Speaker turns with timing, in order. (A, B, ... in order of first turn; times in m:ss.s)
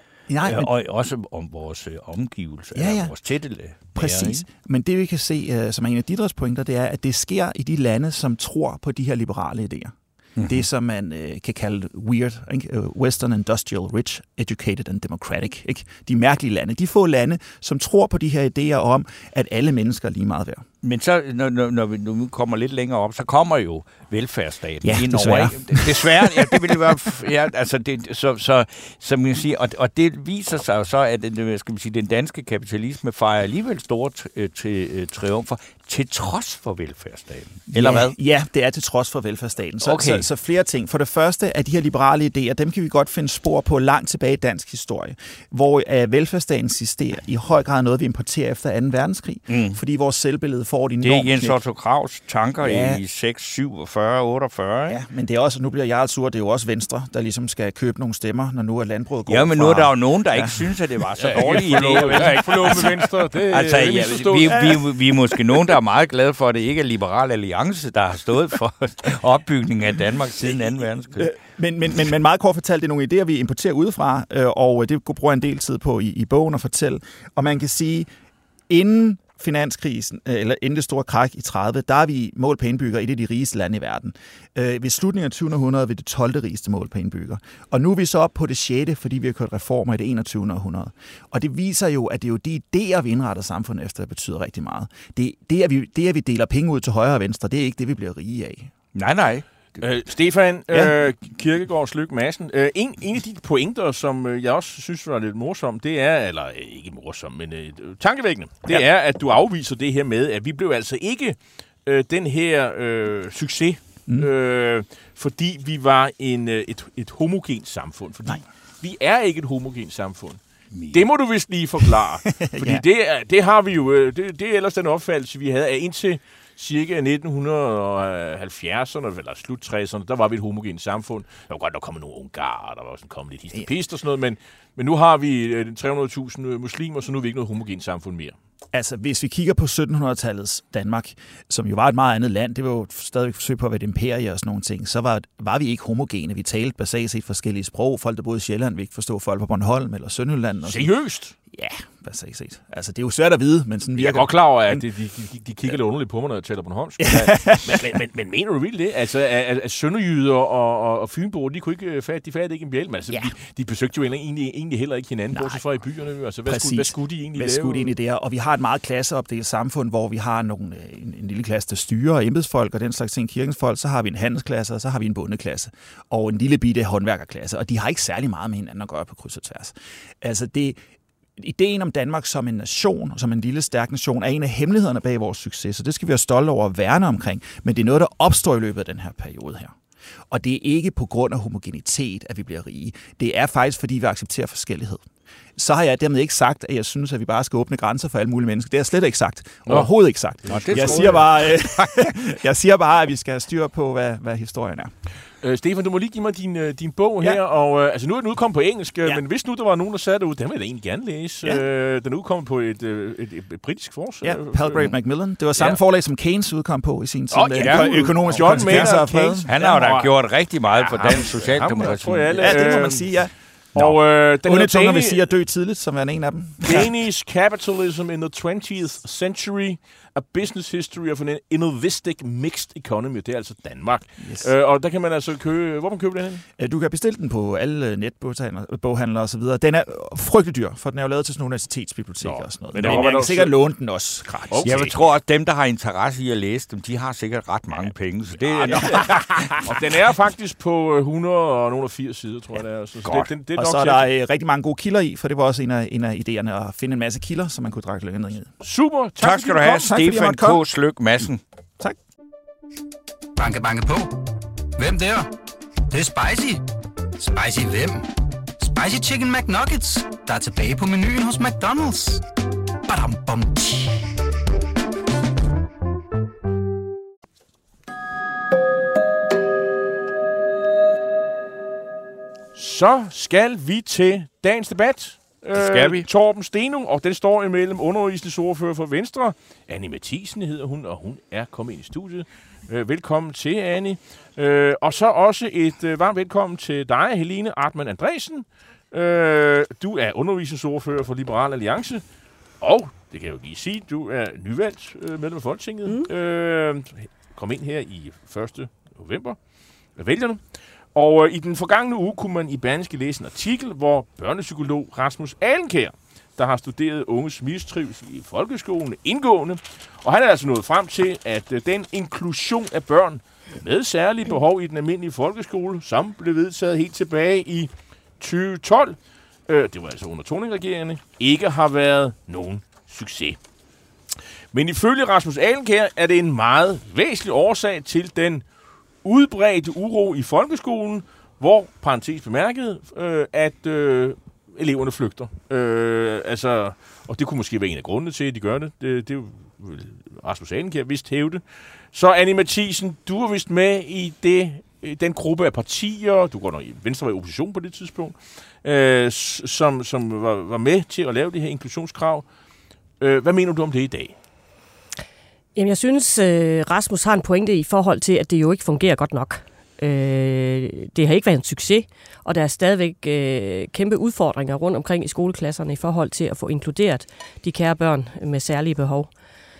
0:00.3-0:00.7 A
0:00.4-0:04.4 B
0:02.8-0:03.1 A
0:03.9-0:20.6 A
0:20.8-0:38.2 B
0:24.8-0:26.5 A
0:37.7-0:51.6 A
0:39.8-0:40.3 B
0:49.5-0:49.8 B
0:51.0-0:55.0 B
0:52.6-0:53.0 A
0:54.9-1:00.7 A
0:59.3-1:11.3 B
1:01.2-1:04.8 C
1:01.3-1:02.7 A
1:11.2-1:18.1 A
1:18.7-1:38.7 A
1:39.0-1:39.4 B
1:39.8-2:00.4 C
2:00.7-2:01.0 B
2:00.9-2:18.4 C
2:02.3-2:02.8 A
2:18.7-2:30.9 A
2:30.6-2:31.3 C
2:31.5-2:34.8 A
2:34.0-2:47.9 C
2:37.0-2:37.8 A
2:45.3-2:45.6 A
2:46.5-3:00.8 A
3:01.4-3:09.8 A
3:10.3-3:15.0 A
3:15.6-3:24.9 A
3:20.4-3:21.2 C
3:20.5-3:22.1 B
3:25.4-3:34.8 C
3:34.2-3:39.5 A
3:37.3-3:42.8 B
3:37.5-3:43.1 C
3:42.4-3:43.9 A
3:43.8-3:45.2 C
3:44.4-3:46.9 A
3:46.6-3:56.4 C
3:54.2-3:54.5 A
3:56.6-4:04.8 A
4:02.2-4:03.5 C
4:02.7-4:03.2 B
4:04.5-4:05.0 C
4:04.6-4:09.7 B
4:08.5-4:14.1 C
4:13.0-4:13.3 B
4:13.6-4:18.5 A
4:18.6-4:20.0 C
4:19.2-4:21.4 B
4:19.5-4:20.6 A
4:23.4-4:25.3 D
4:25.9-4:26.6 D
4:27.2-4:28.1 D
4:28.6-4:32.2 D
4:32.9-4:34.2 D
4:42.6-5:02.0 C
4:45.5-4:46.1 B
5:02.6-5:09.4 C
5:10.0-5:10.4 C
5:10.9-5:29.0 C
5:29.5-5:33.4 C
5:34.5-5:38.4 C
5:39.0-6:02.2 C
6:03.0-6:04.2 C
6:05.6-6:19.1 E